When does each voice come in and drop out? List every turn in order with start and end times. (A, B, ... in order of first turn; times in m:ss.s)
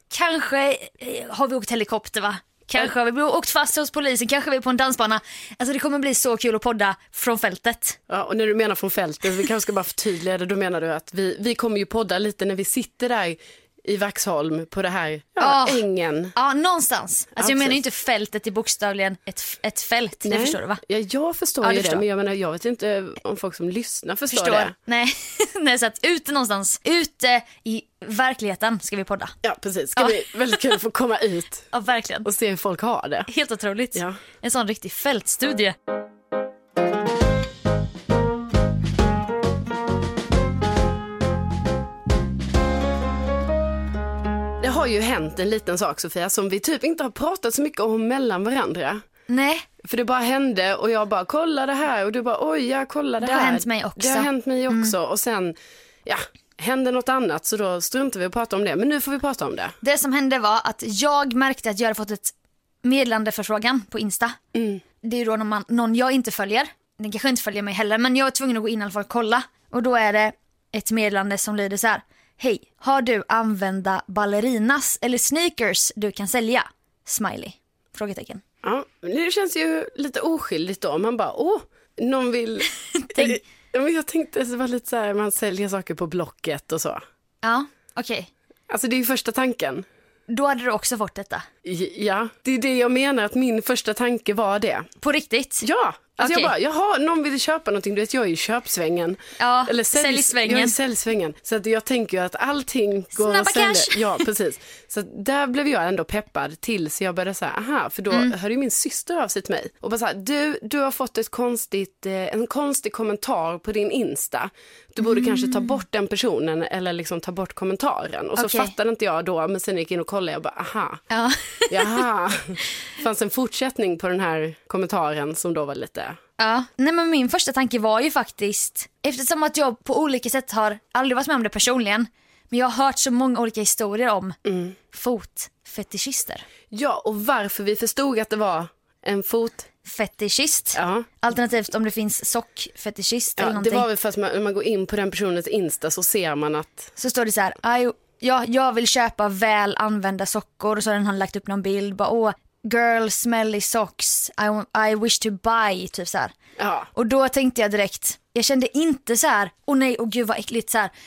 0:00.1-0:08.0 A
0:08.1-0:16.3 B
0:15.4-0:20.8 A
0:17.4-0:17.8 B
0:20.2-0:24.7 B
0:21.6-0:22.0 A
0:24.3-0:29.3 A
0:29.4-0:31.7 B
0:30.0-0:30.6 A
0:31.7-0:32.3 A
0:32.2-0:33.3 B
0:33.3-0:35.8 A
0:44.6-0:49.0 B
0:49.3-0:49.6 A
0:49.8-0:59.8 B
0:53.2-0:54.9 A
0:59.8-1:04.4 A
1:04.6-1:04.8 B
1:05.0-1:18.4 A
1:18.6-1:27.0 B
1:23.0-1:23.4 A
1:27.4-1:28.3 A
1:28.7-1:29.8 B
1:30.3-1:31.5 A
1:31.6-1:34.9 B
1:35.0-1:35.7 A
1:35.6-2:01.0 B
1:36.2-1:36.5 A
1:39.4-1:40.8 A
1:43.2-1:44.2 A
1:55.0-1:55.8 A
1:58.4-1:58.7 A
2:01.1-2:02.1 A
2:01.7-2:06.2 B
2:06.4-2:14.4 A
2:14.5-2:14.8 B
2:14.9-2:16.4 A
2:16.7-2:19.7 B
2:19.8-2:23.9 A
2:20.8-2:21.1 B
2:23.4-2:26.9 B
2:27.0-2:36.3 A
2:36.6-2:36.9 B
2:37.0-2:40.9 A